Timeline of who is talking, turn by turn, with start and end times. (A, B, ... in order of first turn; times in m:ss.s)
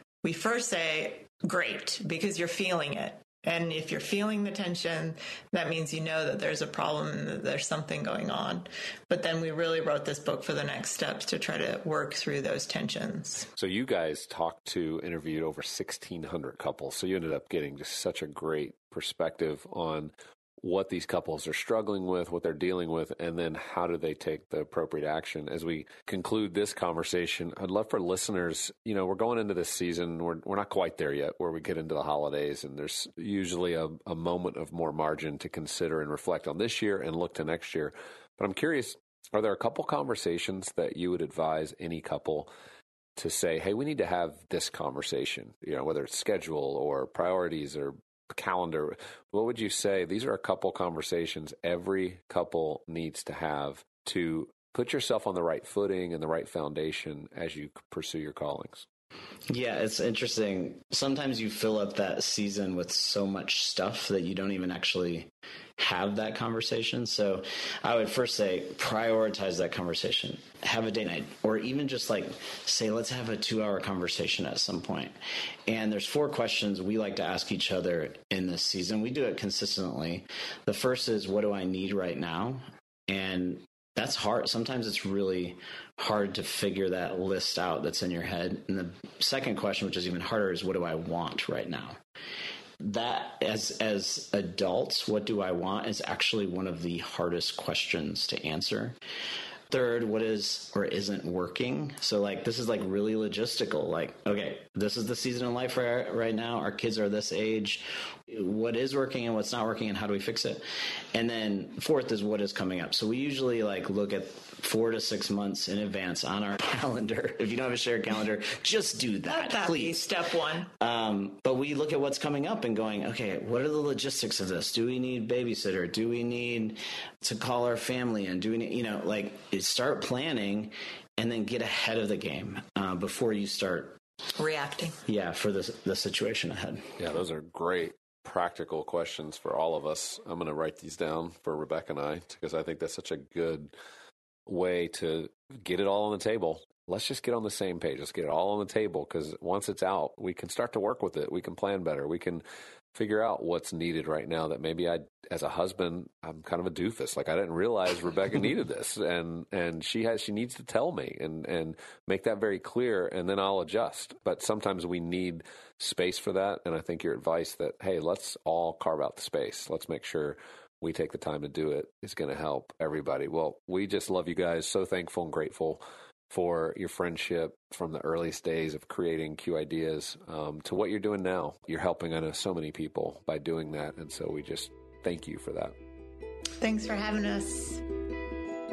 0:00.2-0:13.5 A
0:13.6-0:42.5 B
0:43.2-0:58.8 B
0:59.5-1:15.1 C
1:15.7-1:32.0 C
1:32.8-1:39.0 C
1:39.7-2:00.1 C
1:59.3-2:00.7 A
2:00.8-2:14.0 C
2:14.4-2:15.0 A
2:15.0-2:16.9 C
2:17.0-2:23.7 B
2:24.4-2:32.4 B
2:32.9-3:05.7 B
3:06.6-3:07.8 A